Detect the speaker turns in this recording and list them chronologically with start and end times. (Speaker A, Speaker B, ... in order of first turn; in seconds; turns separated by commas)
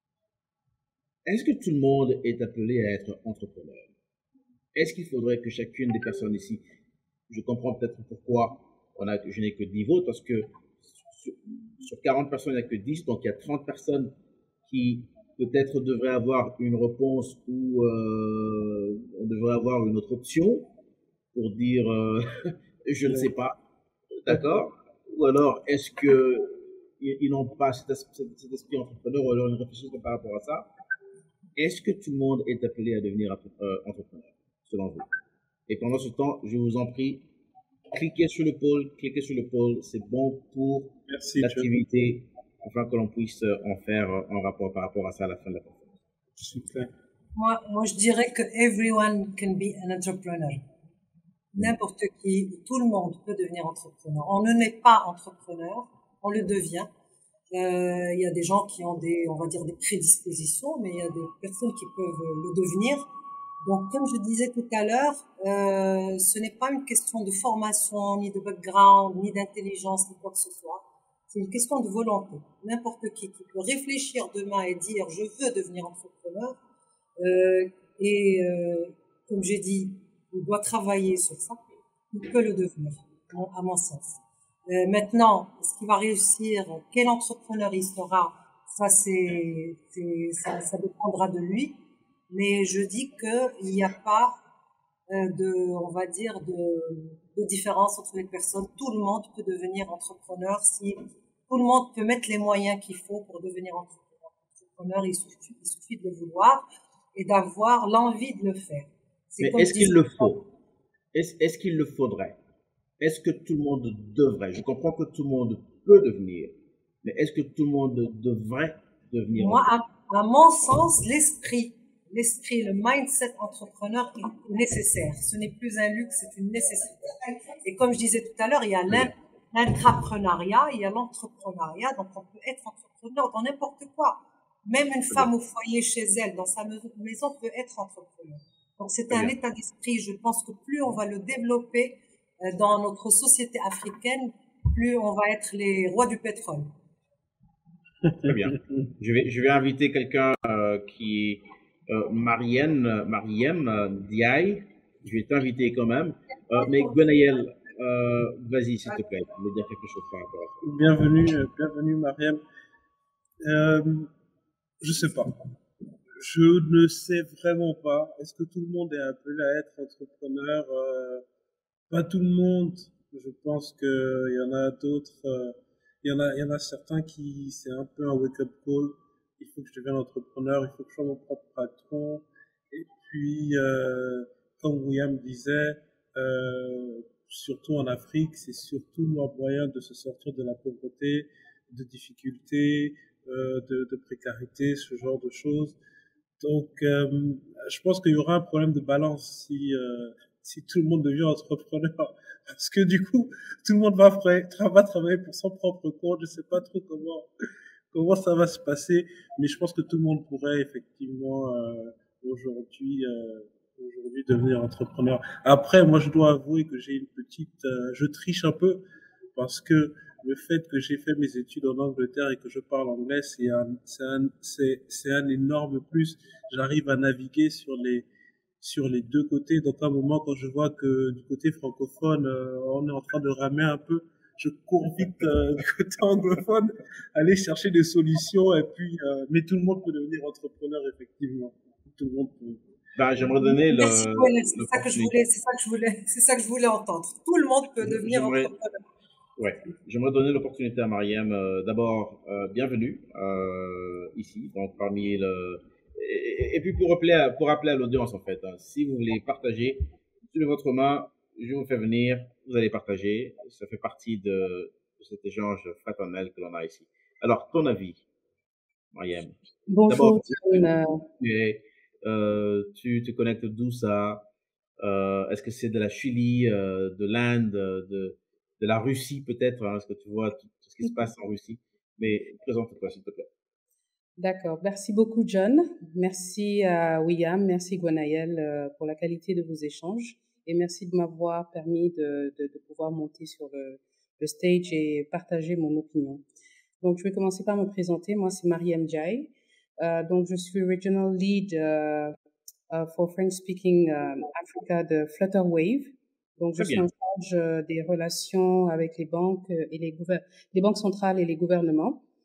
Speaker A: 1.2-3.9, Speaker A: 4.7-6.6, Speaker A: 7.3-14.1, Speaker A: 14.7-20.7, Speaker A: 21.3-23.6, Speaker A: 24.2-30.7, Speaker A: 31.6-35.1, Speaker A: 35.7-37.2, Speaker A: 37.9-45.9, Speaker B: 41.1-41.7, Speaker B: 46.4-46.9, Speaker C: 47.4-50.6, Speaker C: 51.5-56.9, Speaker C: 57.5-63.1, Speaker C: 63.6-76.5, Speaker C: 77.2-81.6, Speaker C: 82.1-91.8, Speaker C: 92.3-94.4, Speaker C: 95.1-110.3, Speaker A: 109.4-110.5, Speaker A: 111.1-112.4, Speaker A: 113.0-119.7, Speaker C: 119.3-146.7, Speaker B: 148.0-148.8, Speaker A: 148.2-160.6, Speaker B: 160.6-162.4, Speaker B: 163.4-164.1, Speaker B: 164.8-165.4, Speaker B: 166.2-171.2, Speaker B: 171.9-195.8, Speaker B: 196.4-207.3, Speaker B: 207.9-218.8, Speaker B: 219.3-228.1, Speaker B: 228.6-242.6, Speaker A: 242.9-245.2, Speaker C: 243.4-248.8, Speaker A: 247.8-248.5, Speaker A: 249.4-268.0, Speaker A: 268.9-270.6, Speaker D: 269.7-271.1, Speaker A: 271.2-274.3, Speaker A: 274.8-283.3, Speaker D: 284.2-296.2, Speaker D: 296.8-302.1, Speaker D: 302.7-312.0, Speaker A: 306.6-306.9